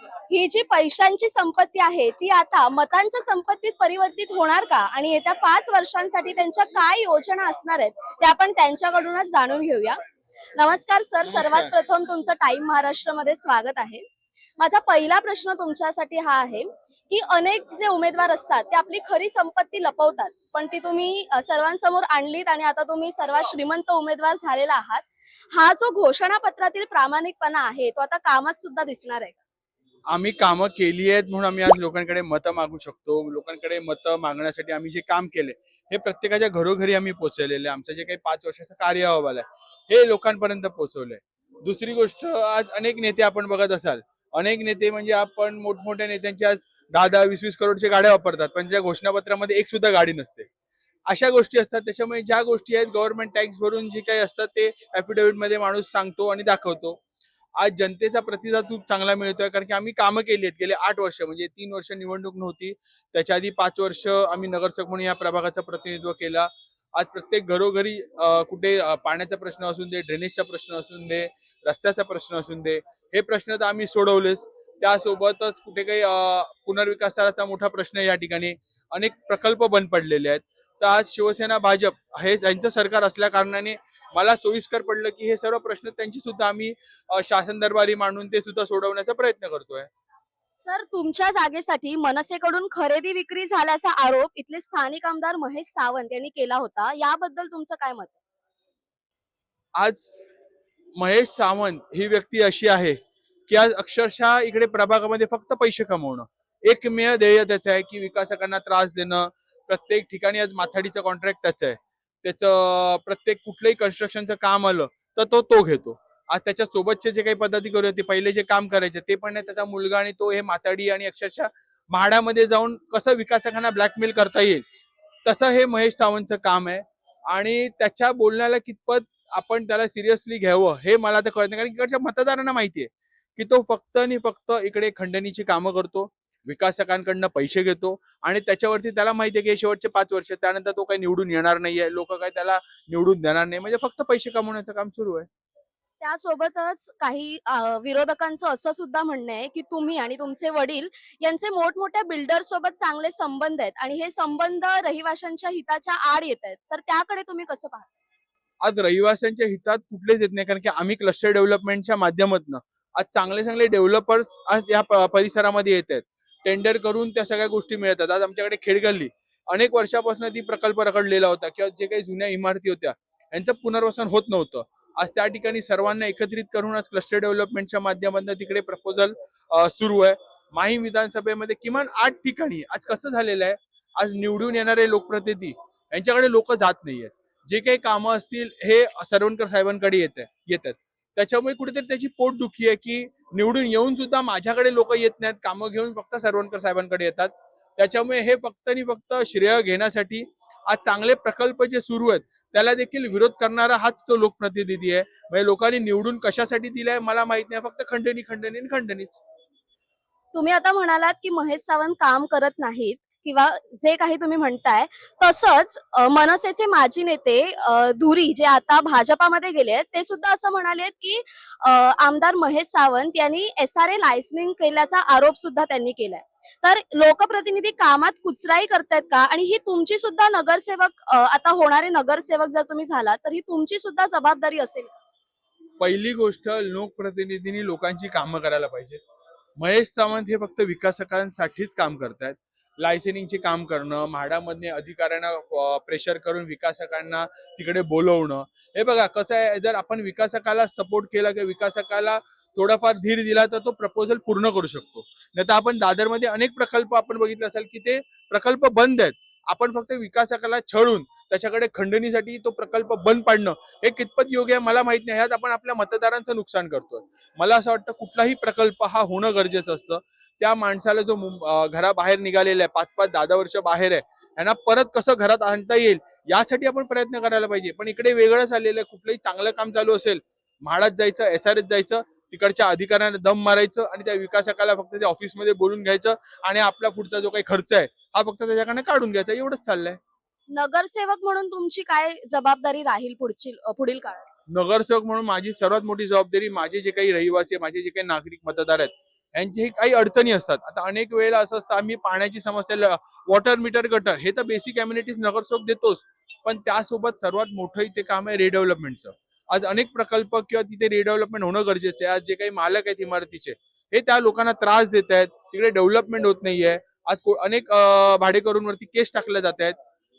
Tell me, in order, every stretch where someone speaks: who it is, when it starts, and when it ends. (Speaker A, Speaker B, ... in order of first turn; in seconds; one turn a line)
Speaker A: 0.3-10.0
Speaker A: 10.6-14.0
Speaker B: 11.2-11.7
Speaker A: 14.6-29.4
Speaker B: 30.1-50.5
Speaker B: 51.1-57.0
Speaker B: 57.6-89.9
Speaker A: 90.6-98.2
Speaker B: 99.8-100.2
Speaker B: 101.0-103.0
Speaker B: 103.5-124.6
Speaker B: 125.2-145.3
Speaker A: 146.0-157.9
Speaker B: 158.6-209.2
Speaker A: 210.3-235.0
Speaker B: 235.8-239.0
Speaker B: 239.6-290.0
Speaker A: 290.5-294.2
Speaker B: 294.5-319.8